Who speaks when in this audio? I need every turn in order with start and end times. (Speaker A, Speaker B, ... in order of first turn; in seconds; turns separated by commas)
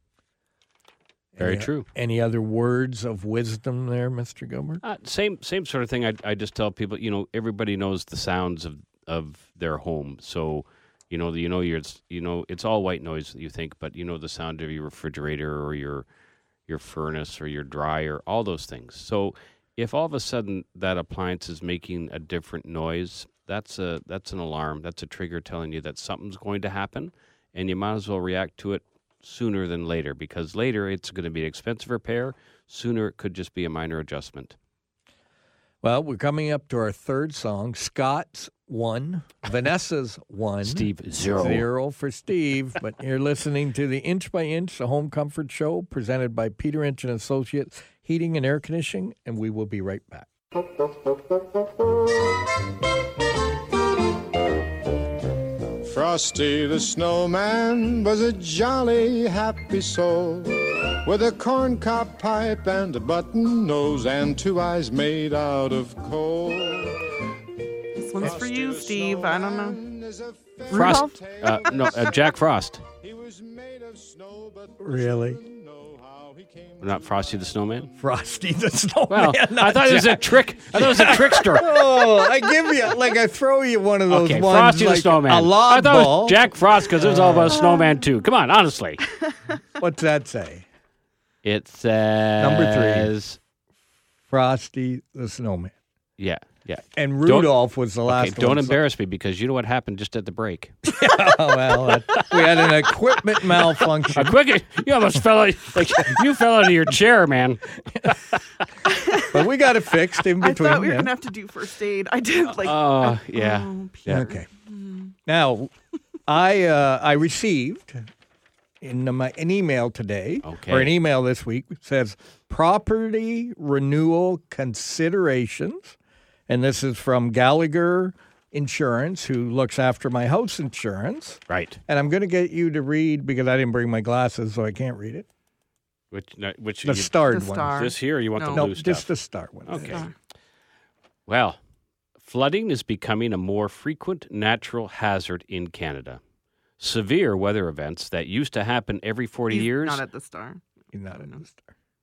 Speaker A: 1.4-4.8, Speaker B: 1.4-1.9, Speaker B: 4.8-16.1, Speaker B: 16.7-34.6, Speaker A: 35.8-50.3, Speaker B: 40.6-41.7, Speaker C: 55.8-67.1, Speaker D: 68.0-69.8, Speaker C: 68.2-72.4, Speaker D: 70.7-71.2, Speaker B: 70.7-72.8, Speaker C: 73.0-77.9, Speaker A: 74.8-75.4, Speaker B: 76.8-77.9, Speaker A: 78.0-87.6, Speaker B: 79.1-82.0, Speaker B: 84.1-89.0, Speaker D: 87.6-88.0, Speaker A: 89.8-90.7, Speaker B: 91.4-93.4, Speaker A: 92.4-93.1, Speaker A: 94.3-95.7, Speaker B: 96.2-97.5, Speaker A: 97.0-98.8, Speaker B: 98.1-100.9, Speaker A: 100.8-104.4, Speaker B: 101.7-107.6, Speaker A: 107.9-108.2, Speaker D: 108.9-109.4, Speaker A: 109.2-111.1, Speaker D: 110.4-115.2, Speaker B: 112.6-114.3, Speaker A: 114.1-114.5, Speaker A: 115.3-115.7, Speaker A: 116.3-118.1, Speaker A: 118.8-126.0, Speaker B: 120.4-120.9, Speaker A: 126.5-135.3, Speaker B: 131.5-131.8, Speaker B: 136.1-139.1, Speaker A: 136.8-137.8, Speaker D: 137.3-138.7, Speaker A: 138.5-140.1, Speaker B: 139.7-140.0, Speaker D: 139.8-140.1, Speaker B: 141.3-141.6, Speaker B: 142.2-146.2, Speaker B: 146.8-150.0, Speaker D: 149.5-150.6, Speaker A: 150.9-151.6, Speaker D: 151.1-151.4